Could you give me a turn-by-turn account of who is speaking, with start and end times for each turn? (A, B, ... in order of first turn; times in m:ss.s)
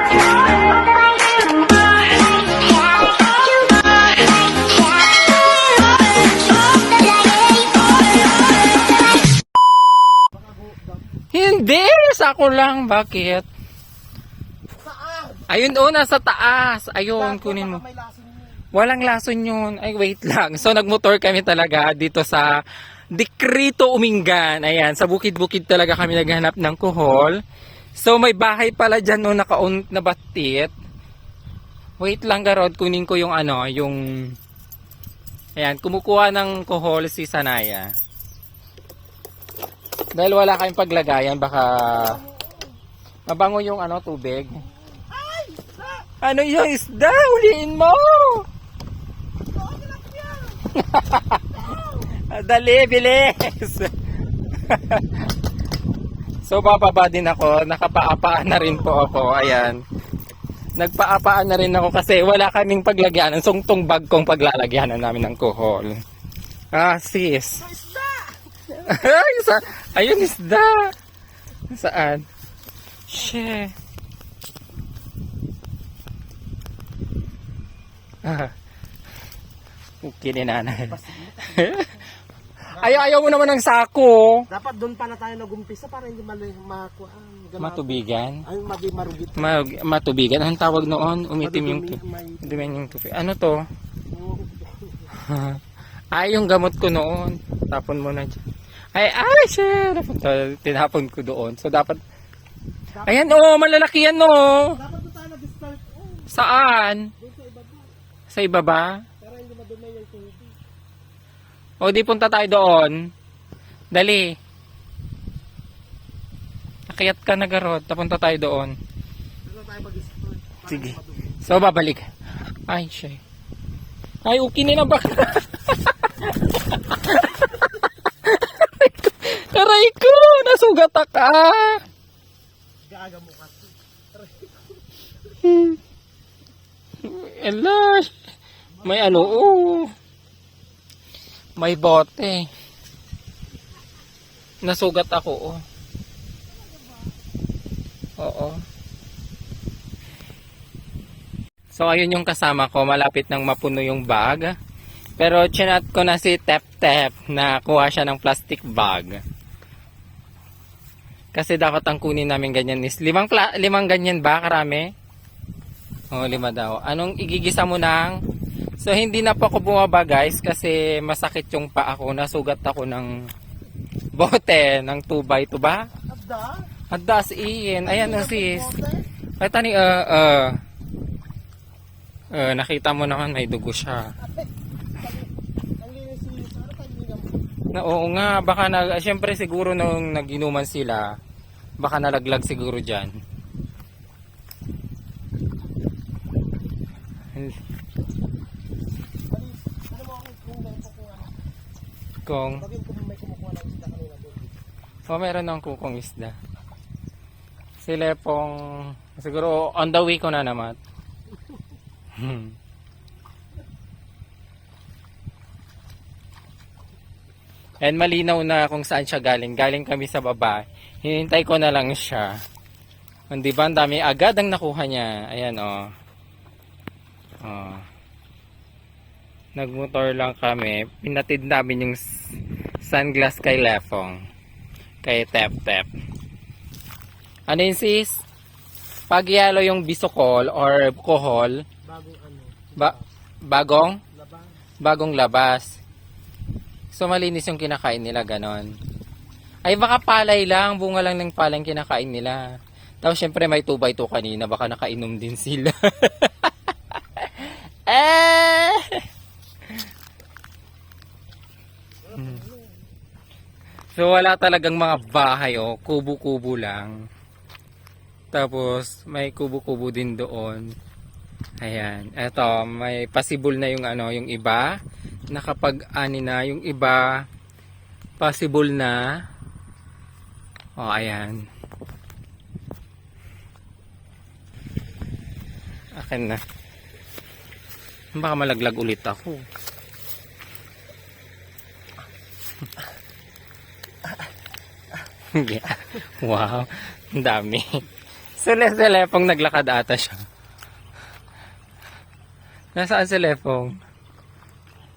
0:10.3-0:11.1 A
0:11.3-0:13.4 B
0:14.8-0:15.5 A
0:15.5-0:17.8 B
0:17.1-0:18.6 A
0:18.7-0:22.5 B
0:23.1-0:27.4 B
0:28.0-0:30.7 B
0:32.0-0:34.0 B
0:35.6-0:37.9 B
0:40.1-0:42.2 B
0:42.0-0:42.5 A
0:43.3-0:44.6 B
0:44.9-0:46.0 A
0:46.2-0:48.4 B
0:49.6-0:50.7 A
0:50.7-0:53.9 B
0:54.6-0:55.2 B
0:56.4-0:59.8 B
1:00.8-1:05.9 B
1:06.7-1:07.7 B
1:07.6-1:08.4 A
1:08.7-1:10.9 B
1:11.7-1:12.2 B
1:13.1-1:13.7 B
1:18.2-1:18.5 B
1:20.0-1:22.0 B
1:20.9-1:21.8 A
1:22.7-1:24.4 B
1:22.8-1:23.2 A
1:24.5-1:29.6 A
1:27.6-1:28.4 B
1:29.3-1:33.6 B
1:31.4-1:32.9 A
1:34.1-1:35.2 A
1:35.1-1:35.6 B
1:36.1-1:38.4 B
1:38.9-1:42.0 B
1:43.0-1:43.4 A
1:43.0-1:44.8 B
1:44.8-1:46.3 A
1:46.3-1:47.1 B
1:47.2-1:47.9 A
1:48.3-1:49.0 B
1:49.2-1:50.5 A
1:51.8-1:53.0 B
1:53.9-1:54.3 B
1:56.9-1:58.7 B
1:59.4-2:01.4 A
2:00.7-2:02.0 B
2:02.7-2:03.2 B
2:04.2-2:11.8 B
2:12.9-2:14.6 A
2:15.4-2:15.8 B
2:17.0-2:18.2 B
2:18.8-2:19.4 A
2:18.8-2:19.9 B
2:21.6-2:22.5 B
2:24.6-2:25.6 B
2:28.2-2:28.6 B
2:31.7-2:34.5 B
2:35.2-2:39.2 B
2:41.3-2:44.9 B
2:46.1-2:48.2 B
2:48.8-2:53.1 B
2:54.1-2:55.8 B
2:56.1-2:56.6 A
2:56.9-2:58.7 B
2:57.8-2:59.0 A
2:59.4-3:00.6 B
3:02.3-3:04.1 B
3:04.2-3:05.3 A
3:05.8-3:07.4 A
3:07.7-3:11.1 B
3:11.8-3:13.1 B
3:19.3-3:21.4 A
3:22.2-3:22.6 B
3:22.6-3:24.6 A
3:25.1-3:26.4 B
3:27.8-3:30.8 B
3:32.2-3:32.5 B
3:37.8-3:42.3 B
3:43.3-3:45.9 B
3:47.4-3:47.8 B
3:49.6-3:52.0 B
3:52.8-3:54.2 B
3:55.0-3:55.9 B
3:57.5-3:58.2 B
3:59.1-4:01.6 B
4:01.8-4:03.1 A
4:02.8-4:04.0 B
4:04.1-4:04.5 A
4:04.8-4:05.7 B
4:06.9-4:08.7 B
4:09.6-4:12.4 B
4:13.0-4:16.5 B
4:17.2-4:19.0 B
4:22.1-4:22.5 A
4:23.9-4:27.0 B
4:28.3-4:30.7 B
4:31.6-4:34.7 B
4:35.3-4:37.1 B
4:38.2-4:39.0 B
4:40.8-4:41.4 B
4:46.0-4:46.4 B
4:48.1-4:49.4 B
4:55.3-4:57.8 B
4:58.4-5:00.2 B
5:02.7-5:03.8 B